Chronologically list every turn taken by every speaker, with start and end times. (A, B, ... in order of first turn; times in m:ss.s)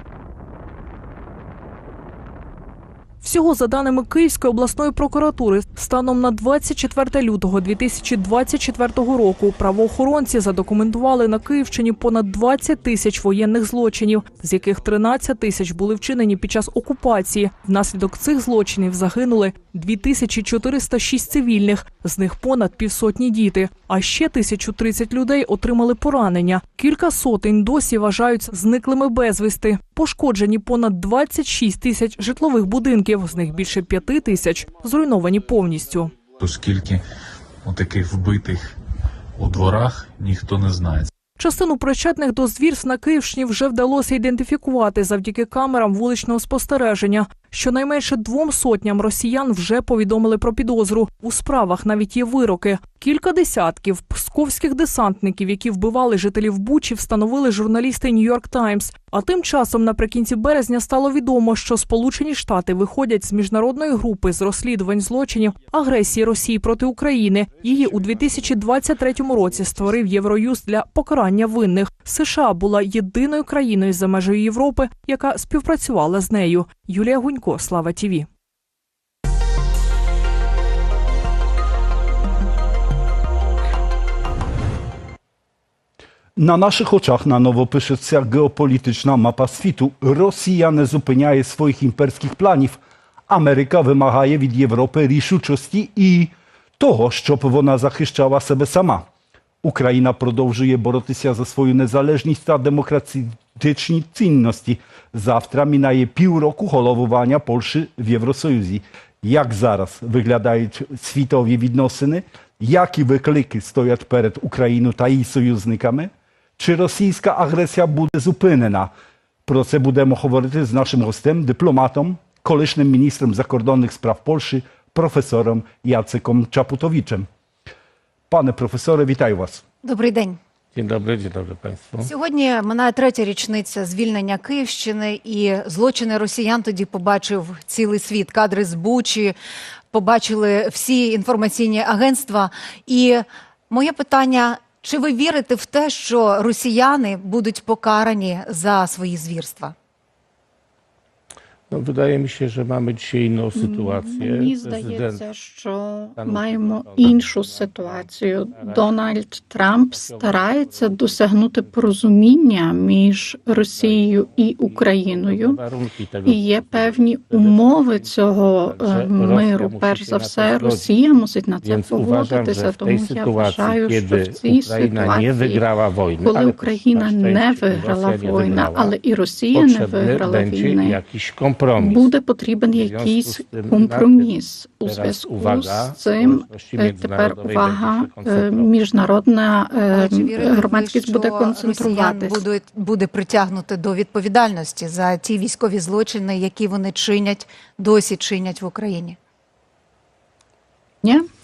0:03.2-0:36.2 A
0:36.4-0:37.0 B
0:37.6-0:38.6 B
0:39.4-0:41.1 B
0:41.4-1:18.3 A
1:26.4-1:39.1 C
1:39.6-1:58.9 C
1:59.5-2:07.3 C
2:08.3-2:09.6 C
2:09.8-2:10.4 D
2:10.8-2:12.1 E
2:12.0-2:19.4 D
2:19.9-2:29.7 D
2:31.7-2:35.2 E
2:33.6-2:45.6 F
2:36.2-2:38.9 E
2:39.9-2:41.9 E
2:43.5-2:50.9 E
2:46.3-2:55.6 F
2:51.6-2:58.9 E
2:56.2-3:01.0 F
2:59.5-3:02.1 E
3:01.8-3:12.4 F
3:02.8-3:04.3 E
3:04.8-3:08.7 E
3:09.9-3:19.2 D